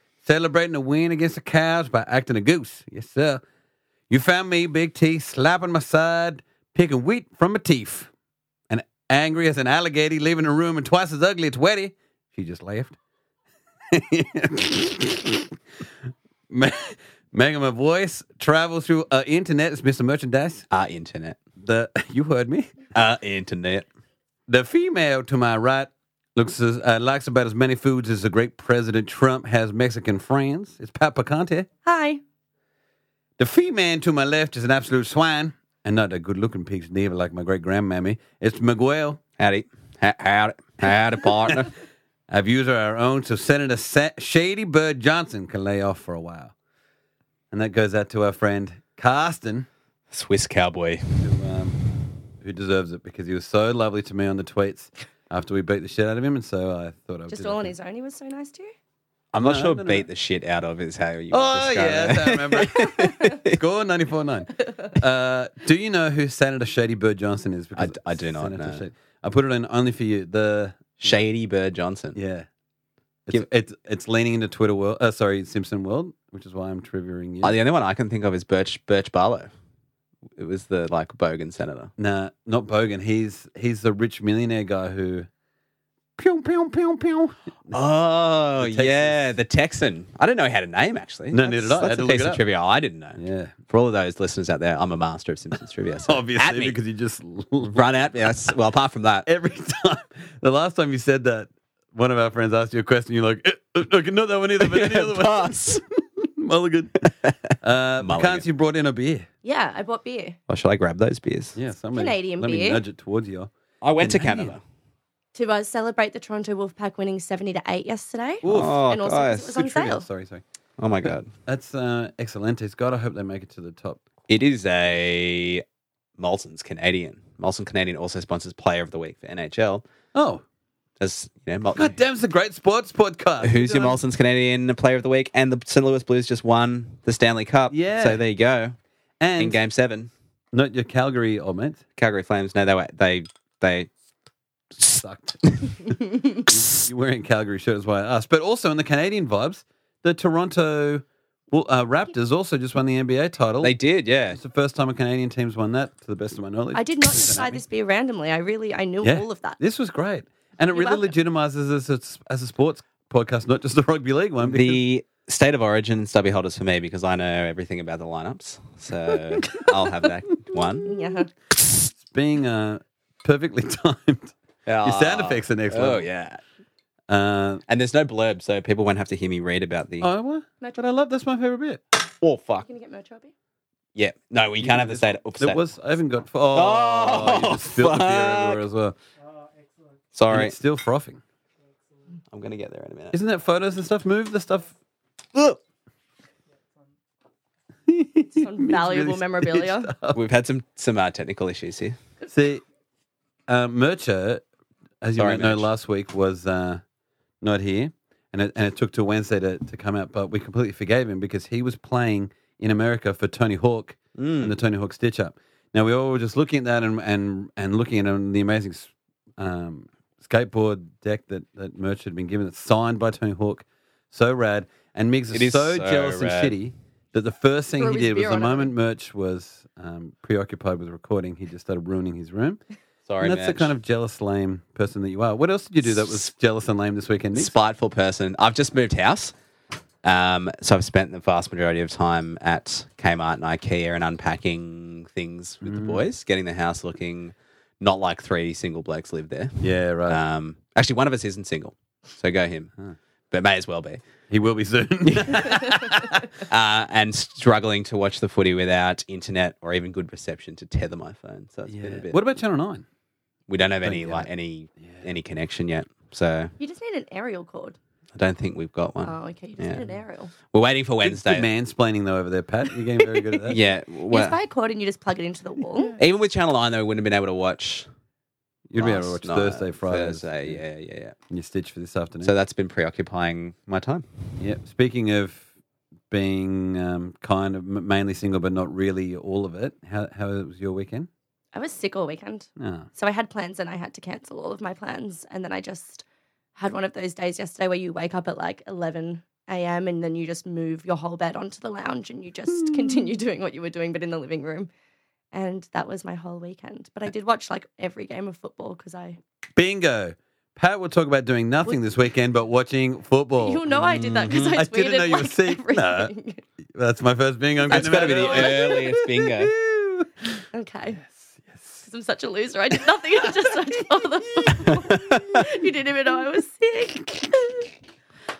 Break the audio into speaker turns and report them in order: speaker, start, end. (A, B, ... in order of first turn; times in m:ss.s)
0:00.2-0:03.4 A
0:04.1-0:08.1 A
0:08.7-0:13.0 A
0:13.9-0:15.6 A
0:16.5-0:20.7 A
0:20.7-0:21.4 B
0:21.6-0:22.8 A
0:22.9-0:23.9 B
0:24.5-0:31.7 A
0:31.8-0:32.2 C
0:33.4-0:39.2 A
0:39.4-0:41.7 B
0:42.3-0:46.5 A
0:47.5-0:49.7 A
0:50.1-0:51.3 B
0:51.2-0:51.8 A
0:52.4-0:57.7 A
0:57.3-0:58.7 C
0:59.3-1:03.6 B
0:59.3-1:00.1 A
1:01.3-1:11.2 A
1:07.8-1:08.8 B
1:11.0-1:12.2 B
1:12.2-1:12.5 A
1:13.3-1:17.6 A
1:17.4-1:19.5 B
1:20.4-1:21.9 B
1:22.0-1:25.3 A
1:26.2-1:27.8 A
1:27.7-1:33.2 B
1:28.6-1:29.2 A
1:31.3-1:32.4 A
1:33.2-1:33.6 A
1:33.7-1:36.8 B
1:36.1-1:37.8 A
1:37.7-1:39.3 B
1:39.3-1:47.1 A
1:44.6-1:45.8 B
1:47.1-1:48.4 B
1:47.6-1:49.3 A
1:49.4-1:50.4 C
1:50.5-1:51.6 B
1:51.6-1:54.6 A
1:51.9-1:52.8 C
1:53.8-1:54.6 B
1:55.4-2:00.1 C
1:58.4-1:59.0 A
1:58.4-1:59.8 B
1:59.6-2:00.4 A
2:00.8-2:01.3 B
2:01.0-2:04.0 A
2:04.3-2:05.6 B
2:06.2-2:09.8 B
2:10.1-2:10.4 A
2:11.0-2:12.0 B
2:11.7-2:14.0 A
2:13.4-2:18.8 B
2:17.7-2:18.2 A
2:19.2-2:19.6 A
2:19.4-2:20.1 B
2:20.5-2:21.8 A
2:22.0-2:23.9 B
2:24.8-2:26.0 A
2:26.5-2:33.8 A
2:33.6-2:34.4 B
2:34.3-2:37.6 A
2:36.8-2:39.6 C
2:39.0-2:44.8 A
2:40.7-2:41.1 C
2:44.4-2:50.9 B
2:50.8-2:51.3 C
2:52.0-2:56.1 A
2:54.7-2:56.4 B
2:57.1-2:57.6 A
2:57.7-3:00.1 B
3:00.0-3:01.8 A
3:02.2-3:02.7 B
3:02.6-3:03.3 C
3:04.0-3:05.6 B
3:04.6-3:09.0 A
3:06.5-3:08.6 B
3:10.1-3:10.5 B
3:10.3-3:11.2 A
3:12.3-3:13.2 B
3:13.1-3:14.8 A
3:17.9-3:20.2 A
3:18.3-3:19.9 C
3:20.2-3:22.0 B
3:22.3-3:22.6 A
3:23.5-3:24.4 A
3:25.0-3:26.8 A
3:25.2-3:25.7 B
3:27.4-3:52.6 A
3:34.2-3:34.6 B
3:45.3-3:46.6 B
3:47.8-3:48.7 C
3:53.1-3:53.7 B
3:53.2-3:57.6 A
3:57.4-3:59.3 B
4:00.0-4:12.7 B
4:05.6-4:06.0 A
4:09.6-4:10.2 A
4:13.3-4:14.0 B
4:14.3-4:16.3 A
4:16.5-4:22.2 B
4:21.7-4:22.9 A
4:23.5-4:26.5 B
4:23.8-4:24.3 A
4:26.6-4:27.8 C
4:28.2-4:29.9 B
4:29.0-4:30.3 C
4:30.5-4:31.5 B
4:31.0-4:33.6 A
4:33.0-4:36.0 C
4:33.5-4:34.4 B
4:36.0-4:37.9 B
4:38.7-4:40.6 A
4:38.8-4:41.2 B
4:41.3-4:42.4 A
4:42.2-4:44.1 B
4:44.4-4:45.5 A
4:46.1-4:51.1 A
4:51.5-4:56.0 C
4:52.6-4:52.9 A
4:56.6-5:04.7 C
5:05.3-5:09.2 C
5:09.6-5:16.1 A
5:13.4-5:16.4 C
5:14.1-5:14.4 B
5:16.7-5:20.4 A
5:17.7-5:19.5 B
5:17.8-5:18.8 C
5:20.5-5:21.0 C
5:21.0-5:21.8 A
5:21.9-5:27.7 C
5:24.2-5:25.4 A
5:24.8-5:25.3 B